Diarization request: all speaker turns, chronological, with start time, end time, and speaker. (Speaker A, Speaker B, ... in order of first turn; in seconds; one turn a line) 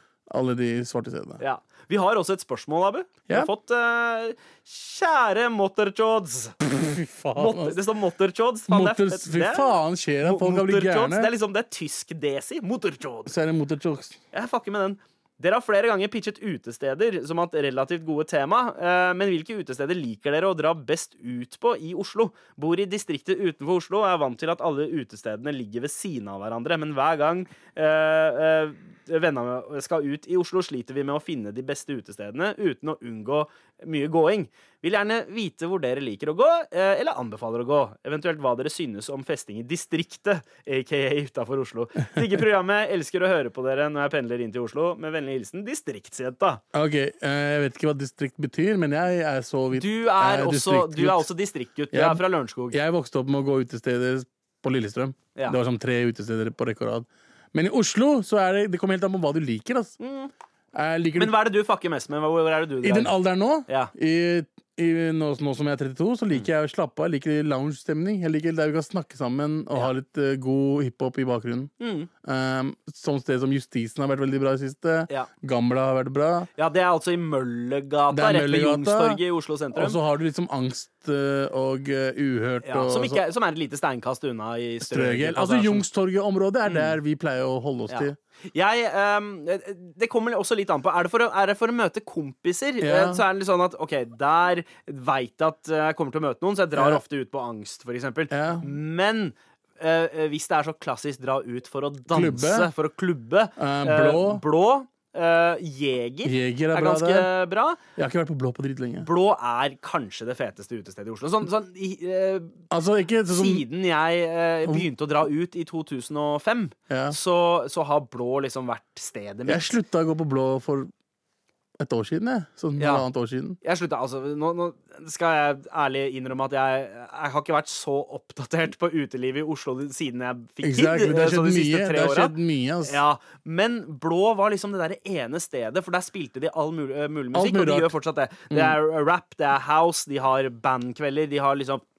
Speaker A: 0.3-1.4
Speaker B: 1.4-6.6
Speaker A: 6.7-7.8
Speaker B: 7.4-13.3
Speaker A: 8.7-11.3
Speaker A: 13.3-14.2
Speaker B: 14.3-46.6
Speaker A: 46.7-51.3
Speaker B: 49.7-52.8
Speaker A: 51.9-60.0
Speaker B: 60.0-60.3
Speaker A: 60.7-61.4
Speaker B: 61.2-63.1
Speaker A: 62.8-71.7
Speaker B: 63.7-63.9
Speaker B: 71.8-72.1
Speaker A: 72.2-76.5
Speaker B: 76.6-80.0
Speaker A: 78.1-79.2
Speaker A: 79.7-83.2
Speaker B: 82.6-85.8
Speaker A: 84.8-88.2
Speaker B: 86.7-87.0
Speaker B: 87.9-107.8
Speaker A: 92.8-93.2
Speaker A: 96.8-97.0
Speaker A: 98.3-98.7
Speaker A: 102.1-102.7
Speaker A: 103.6-104.4
Speaker A: 106.2-107.3
Speaker A: 108.0-109.1
Speaker B: 109.0-112.6
Speaker A: 112.7-113.6
Speaker B: 113.3-119.8
Speaker A: 116.9-117.2
Speaker A: 119.5-120.9
Speaker A: 121.8-123.6
Speaker B: 122.8-123.1
Speaker B: 123.6-141.8
Speaker A: 130.6-133.0
Speaker A: 137.3-137.9
Speaker A: 138.5-138.8